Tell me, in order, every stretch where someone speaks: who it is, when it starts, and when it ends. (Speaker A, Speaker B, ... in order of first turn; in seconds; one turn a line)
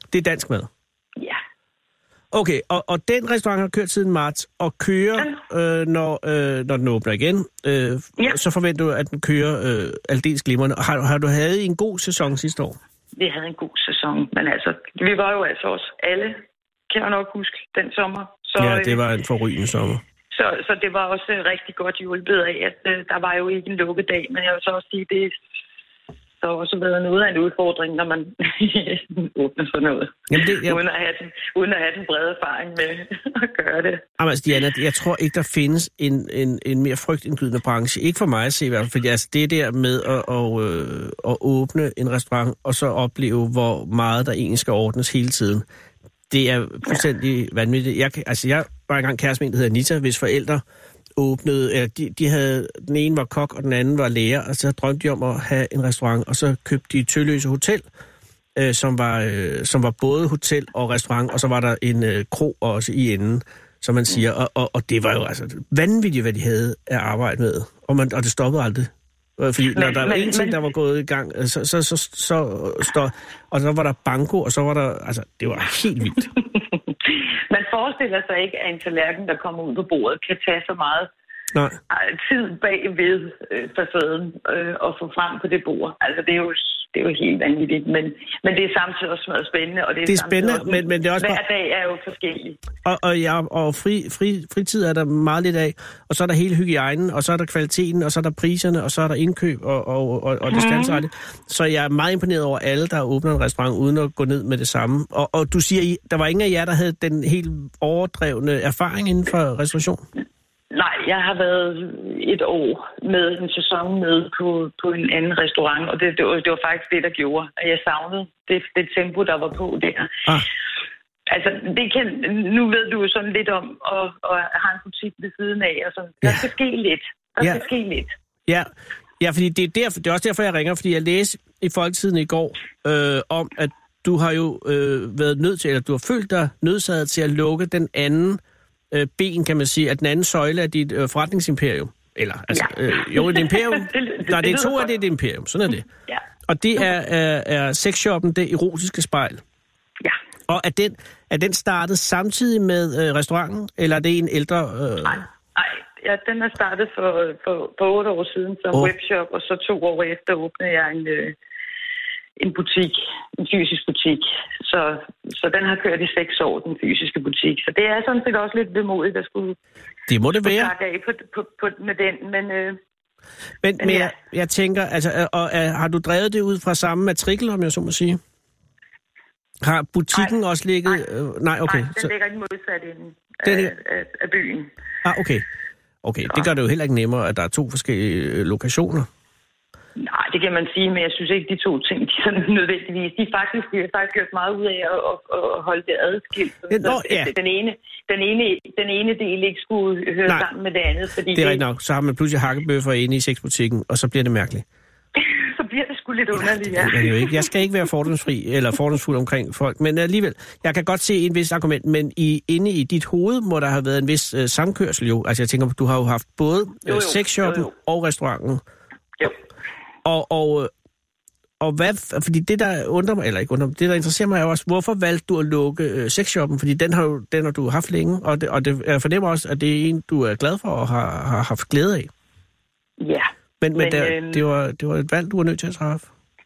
Speaker A: 0.1-0.7
Speaker A: 2.3-12.8
Speaker B: 13.2-19.0
Speaker A: 18.6-20.0
Speaker B: 20.3-25.4
Speaker B: 26.4-34.0
Speaker A: 30.3-30.8
Speaker A: 34.2-45.6
Speaker A: 46.3-50.6
Speaker A: 51.2-57.8
Speaker A: 58.5-76.3
Speaker B: 69.7-70.6
Speaker B: 76.4-81.1
Speaker B: 81.9-92.6
Speaker A: 90.0-91.4
Speaker A: 92.8-110.0
Speaker B: 100.5-101.0
Speaker B: 110.7-120.2
Speaker B: 121.3-128.1
Speaker A: 128.5-145.8
Speaker B: 142.5-144.9
Speaker A: 146.4-149.4
Speaker A: 150.5-155.2
Speaker B: 155.1-161.3
Speaker B: 162.4-169.6
Speaker A: 170.1-170.7
Speaker B: 170.4-172.8
Speaker A: 173.6-178.2
Speaker B: 173.8-174.1
Speaker A: 179.6-182.1
Speaker B: 181.6-184.7
Speaker A: 183.4-183.7
Speaker A: 185.0-185.5
Speaker A: 186.0-189.1
Speaker B: 190.0-201.6
Speaker A: 196.7-197.3
Speaker A: 201.3-204.6
Speaker B: 205.2-207.5
Speaker A: 206.4-218.6
Speaker B: 216.9-217.7
Speaker A: 220.0-220.7
Speaker A: 221.6-232.1
Speaker B: 233.0-234.4
Speaker A: 233.6-236.1